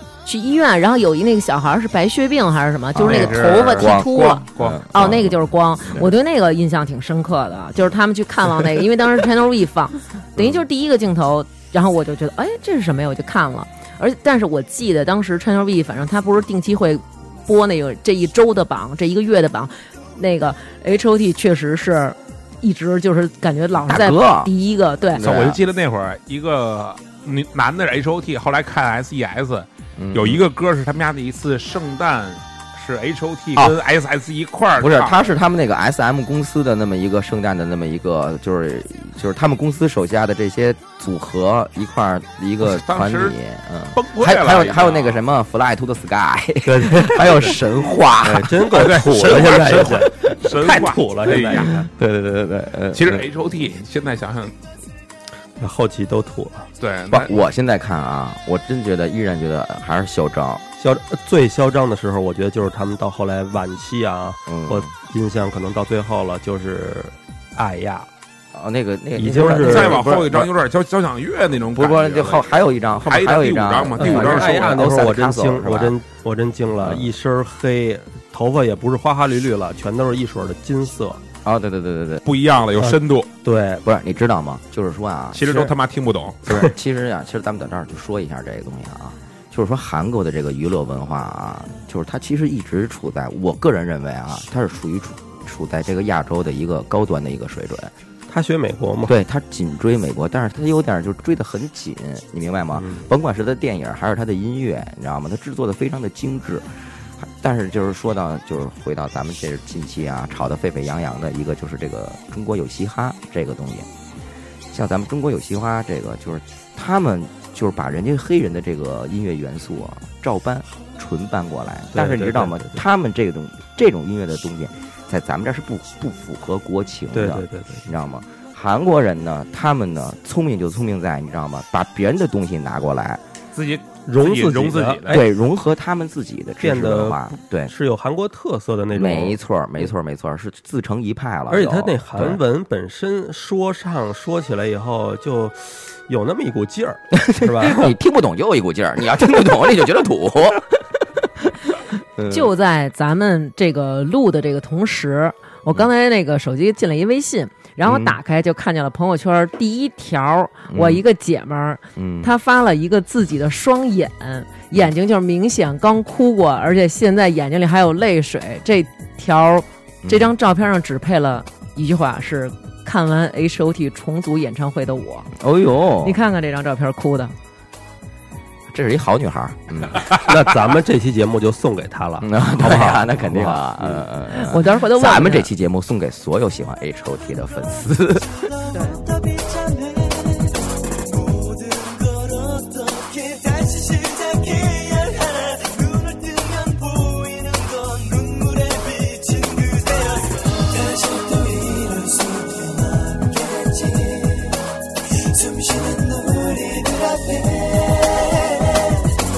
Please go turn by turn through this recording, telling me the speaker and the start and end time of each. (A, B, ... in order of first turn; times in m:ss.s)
0:00.2-0:25.3 A
0:03.0-0:05.4 B
0:03.0-0:04.9 C
0:23.9-0:24.5 B
0:25.2-0:25.6 B
0:25.2-0:35.3 C
0:30.0-0:30.4 B
0:34.8-0:49.5 B
0:42.6-0:43.4 C
0:43.9-0:45.2 C
0:46.7-0:47.6 D
0:48.2-0:51.9 D
0:48.7-0:51.9 C
0:51.7-0:53.3 B
0:52.9-0:54.6 C
0:55.6-0:56.7 D
0:56.8-0:57.4 C
0:57.1-1:00.6 B
1:00.8-1:08.1 D
1:04.5-1:04.9 B
1:08.5-1:10.5 B
1:09.2-1:10.0 D
1:09.6-1:12.5 C
1:11.8-1:15.9 B
1:13.1-1:14.8 C
1:14.0-1:21.2 D
1:16.8-1:17.1 B
1:21.4-1:22.2 B
1:22.2-1:23.3 C
1:22.8-1:23.8 D
1:23.8-1:25.7 B
1:25.3-1:26.6 C
1:26.5-1:37.9 B
1:38.3-1:39.2 D
1:39.1-1:53.9 B
1:42.8-1:43.1 D
1:54.7-2:13.2 B
2:01.9-2:02.8 D
2:07.1-2:07.9 D
2:13.5-2:15.2 C
2:14.1-2:15.3 D
2:15.1-2:17.7 B
2:16.6-2:19.4 D
2:18.9-2:22.4 B
2:21.5-2:28.0 D
2:27.2-2:30.8 B
2:32.2-2:32.5 B
2:32.3-2:55.3 A
2:37.9-2:38.2 B
2:40.7-2:41.0 B
2:42.0-2:42.3 B
2:50.0-2:50.3 B
2:55.4-2:56.2 B
2:56.0-2:57.4 A
2:58.7-3:00.1 B
3:00.1-3:04.1 D
3:02.2-3:08.3 B
3:04.3-3:05.5 A
3:08.4-3:24.6 E
3:08.7-3:09.0 A
3:25.3-3:29.2 E